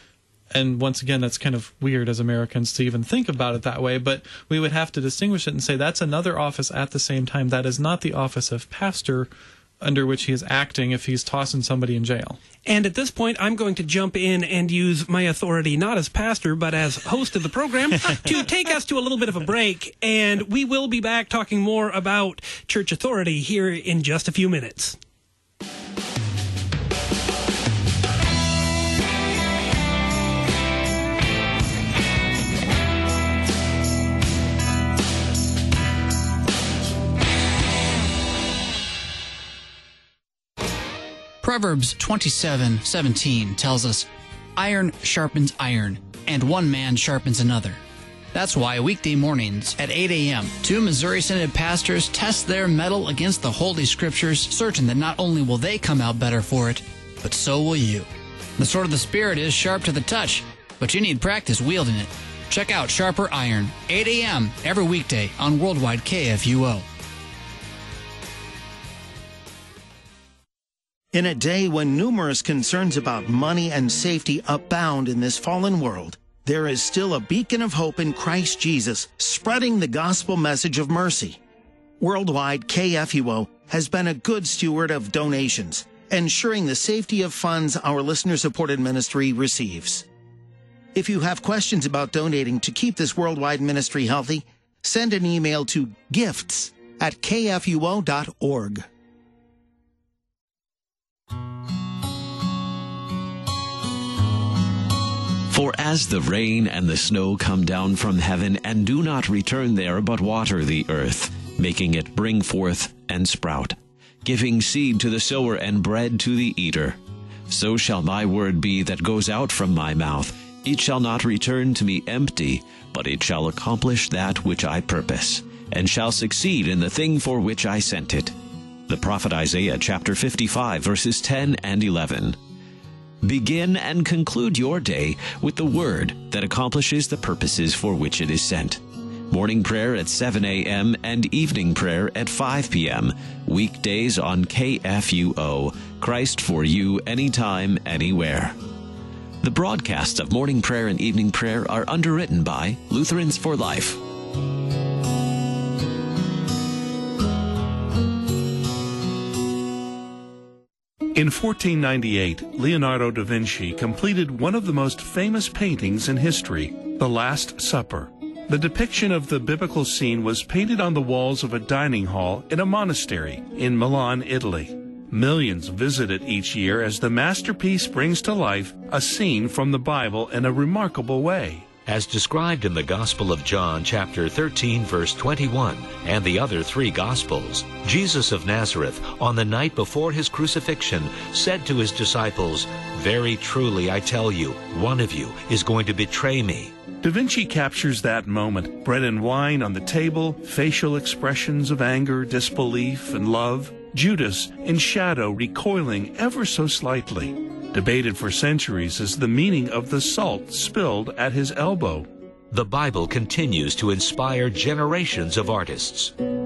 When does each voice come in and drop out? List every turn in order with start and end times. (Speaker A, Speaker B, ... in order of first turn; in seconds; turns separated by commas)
Speaker A: 0.5-12.4, Speaker B: 12.6-25.0, Speaker C: 41.4-47.8, Speaker C: 48.3-66.8, Speaker D: 71.1-81.4, Speaker D: 82.0-90.0, Speaker D: 90.9-98.8, Speaker E: 105.5-128.3, Speaker E: 128.9-132.4, Speaker E: 133.2-148.6, Speaker E: 149.4-154.0, Speaker F: 161.1-181.7, Speaker G: 181.8-196.7, Speaker F: 197.0-212.1, Speaker G: 212.5-216.1